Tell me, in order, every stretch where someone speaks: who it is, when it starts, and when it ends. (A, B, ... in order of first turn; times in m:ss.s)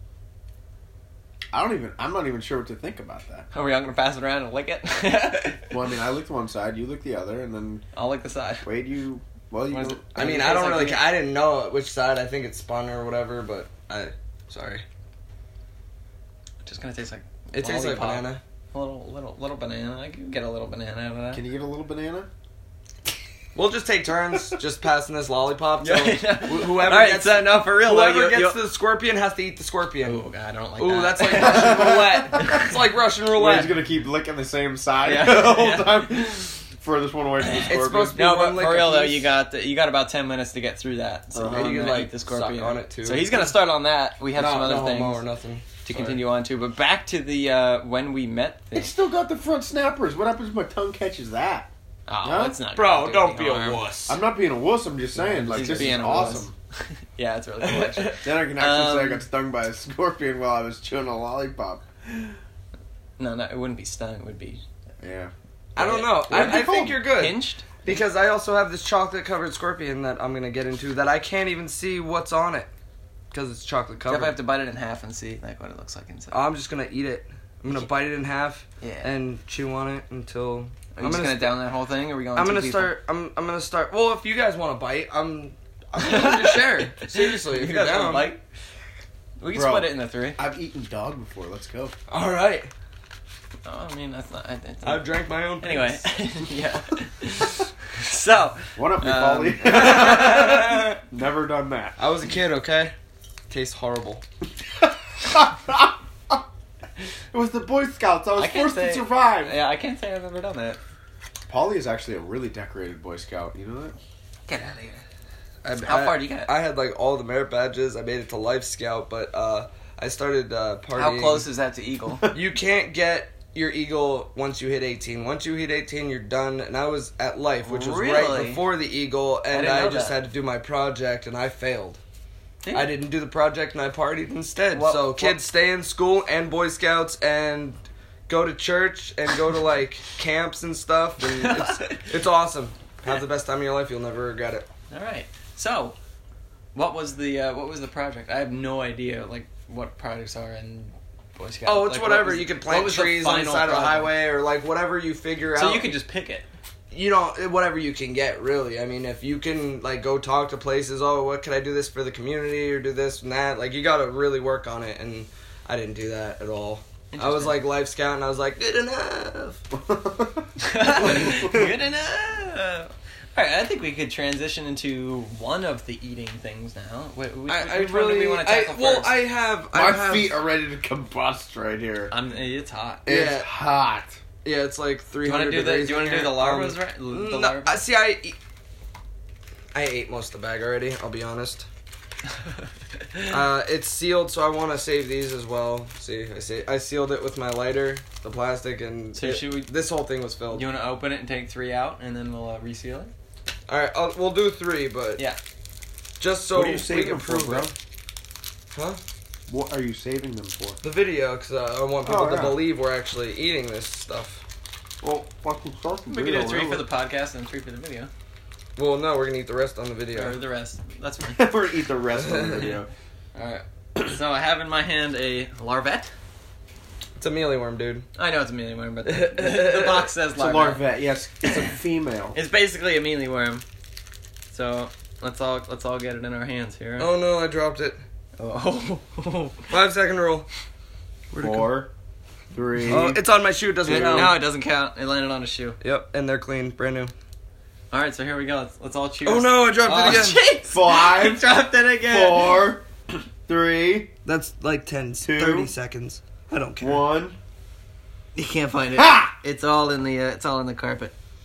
0:01.5-0:03.5 A
0:03.5-0:05.8 B
0:05.6-0:07.8 A
0:07.9-0:08.6 B
0:08.6-0:10.1 A
0:09.7-0:11.1 B
0:10.1-0:14.8 C
0:16.6-0:21.4 B
0:17.5-0:18.4 C
0:21.3-0:22.3 A
0:23.5-0:30.2 C
0:25.8-0:28.6 B
0:30.0-0:32.7 B
0:30.8-0:33.9 C
0:31.3-0:32.3 A
0:33.3-0:38.2 A
0:35.0-0:36.3 B
0:37.4-0:45.2 B
0:37.6-0:39.3 C
0:41.3-0:41.9 A
0:41.4-0:43.5 C
0:44.3-0:44.9 A
0:44.6-0:46.1 C
0:45.8-0:48.9 B
0:48.7-0:51.7 A
0:52.1-0:53.9 B
0:52.2-0:52.6 A
0:52.7-0:54.1 C
0:54.1-0:56.5 A
0:55.1-0:56.5 B
0:57.1-0:59.2 B
0:58.1-1:01.8 A
1:03.2-1:04.6 B
1:05.0-1:05.3 A
1:05.8-1:12.7 C
1:05.8-1:08.0 B
1:06.3-1:06.9 A
1:13.3-1:14.4 C
1:14.0-1:16.4 B
1:16.3-1:21.6 C
1:18.8-1:19.2 B
1:20.9-1:22.9 B
1:22.3-1:28.4 C
1:26.0-1:28.4 B
1:29.4-1:30.4 B
1:29.5-1:31.9 A
1:32.1-1:32.7 C
1:33.6-1:35.0 B
1:34.8-1:36.0 C
1:35.6-1:40.5 B
1:38.8-1:42.0 A
1:39.6-1:41.0 C
1:42.0-1:42.9 C
1:43.5-1:44.2 C
1:45.2-1:46.4 A
1:47.3-1:49.5 A
1:48.4-1:50.8 B
1:51.5-1:54.0 A
1:54.5-1:55.0 B
1:55.6-2:01.5 C
1:55.7-1:56.5 B
2:00.9-2:02.2 B
2:02.3-2:12.0 C
2:07.6-2:08.6 B
2:09.5-2:10.2 B
2:12.6-2:12.9 B
2:12.7-2:24.7 C
2:14.7-2:15.4 B
2:21.2-2:22.1 B
2:24.9-2:26.0 B
2:26.7-2:34.1 B
2:31.6-2:35.9 C
2:35.5-2:36.5 B
2:36.9-2:49.6 C
2:47.1-2:47.7 B
2:49.9-2:50.4 A
2:50.6-2:59.2 B
2:50.9-2:51.6 C
2:57.5-3:00.4 C
2:59.7-3:02.1 A
3:02.1-3:03.0 B
3:03.0-3:03.5 C
3:03.1-3:04.2 A
3:04.4-3:08.4 C
3:05.2-3:07.8 B
3:09.7-3:11.7 C
3:13.3-3:20.7 C
3:19.1-3:19.7 B
3:20.5-3:23.1 B
3:23.7-3:25.2 C
3:26.2-3:27.7 C
3:26.5-3:27.7 A
3:28.7-3:29.0 C
3:29.5-3:30.8 A
3:30.8-3:34.4 C
3:32.0-3:32.6 A
3:35.0-3:36.9 A
3:36.1-3:38.1 B
3:38.8-3:40.4 C
3:40.1-3:41.5 B
3:41.4-3:42.9 A
3:42.1-3:42.6 C
3:43.3-3:46.1 B
3:47.2-3:48.0 C
3:48.2-3:50.9 B
3:49.0-3:50.1 C
3:50.3-3:52.4 A
3:52.3-3:53.6 B
3:54.5-3:57.1 B
3:57.0-3:58.0 C
3:58.4-3:59.7 B
3:59.7-4:00.5 C
4:01.3-4:01.7 C
4:01.4-4:01.9 A
4:02.5-4:03.2 A
4:02.9-4:04.4 C
4:03.8-4:04.4 A
4:03.8-4:05.8 B
4:05.8-4:07.1 C
4:07.9-4:12.7 B
4:09.2-4:10.4 C
4:10.6-4:12.8 A
4:13.4-4:14.1 A
4:14.2-4:17.1 C
4:15.2-4:15.7 A
4:16.8-4:17.4 A
4:18.3-4:21.1 B
4:18.9-4:19.3 A